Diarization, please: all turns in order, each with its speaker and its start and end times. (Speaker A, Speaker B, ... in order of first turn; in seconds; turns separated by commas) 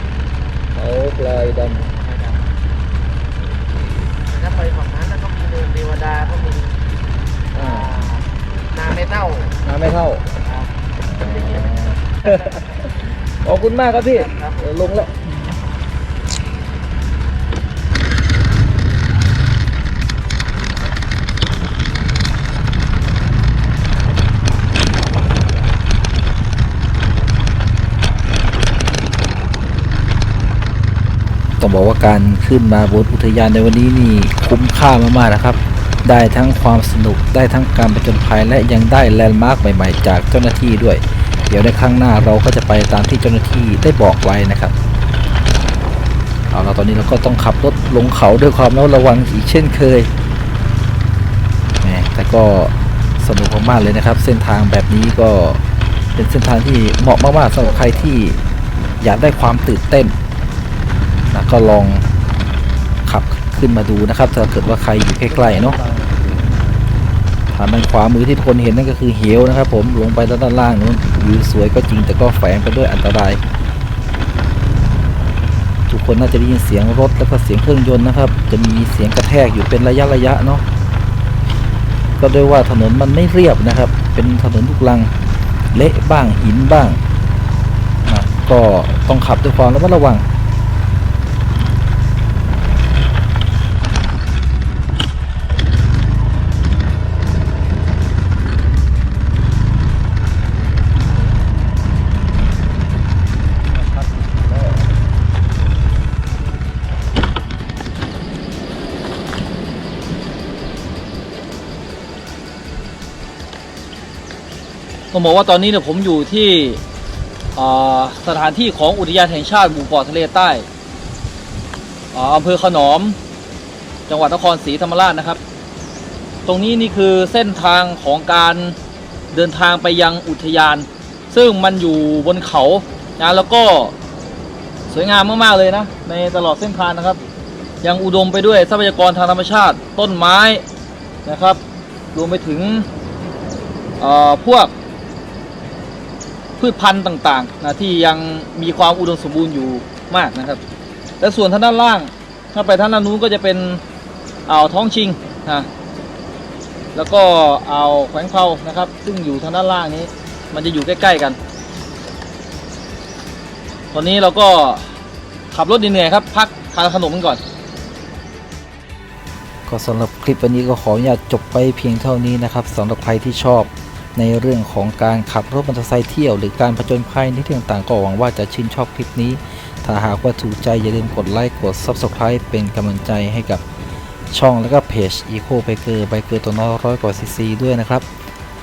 Speaker A: 0.7-1.9, Speaker B: 1.9-2.4, Speaker B: 4.3-6.8, Speaker A: 7.5-8.0, Speaker B: 7.5-9.6, Speaker A: 9.6-10.2, Speaker B: 10.4-10.7, Speaker A: 11.1-12.9, Speaker B: 12.2-12.7, Speaker A: 13.4-15.3, Speaker B: 13.9-14.7, Speaker C: 31.6-44.7, Speaker C: 46.5-50.1, Speaker C: 51.8-55.6, Speaker C: 56.1-58.4, Speaker C: 59.0-60.1, Speaker C: 61.3-62.0, Speaker C: 63.0-65.8, Speaker A: 65.3-66.3, Speaker C: 67.5-73.4, Speaker C: 75.9-80.6, Speaker C: 82.2-85.1, Speaker C: 85.7-87.0, Speaker C: 88.0-90.3, Speaker A: 103.8-104.8, Speaker A: 115.1-116.8, Speaker A: 117.5-120.7, Speaker A: 122.1-123.2, Speaker A: 124.1-125.4, Speaker A: 126.4-128.8, Speaker A: 129.3-133.9, Speaker A: 134.9-137.2, Speaker A: 137.8-140.6, Speaker A: 141.2-141.6, Speaker A: 142.1-142.9, Speaker A: 144.0-144.7, Speaker A: 146.6-150.6, Speaker A: 151.2-153.8, Speaker A: 154.5-155.7, Speaker A: 156.9-161.4, Speaker A: 163.9-164.9, Speaker A: 165.5-167.4, Speaker C: 169.7-183.6, Speaker C: 184.3-188.0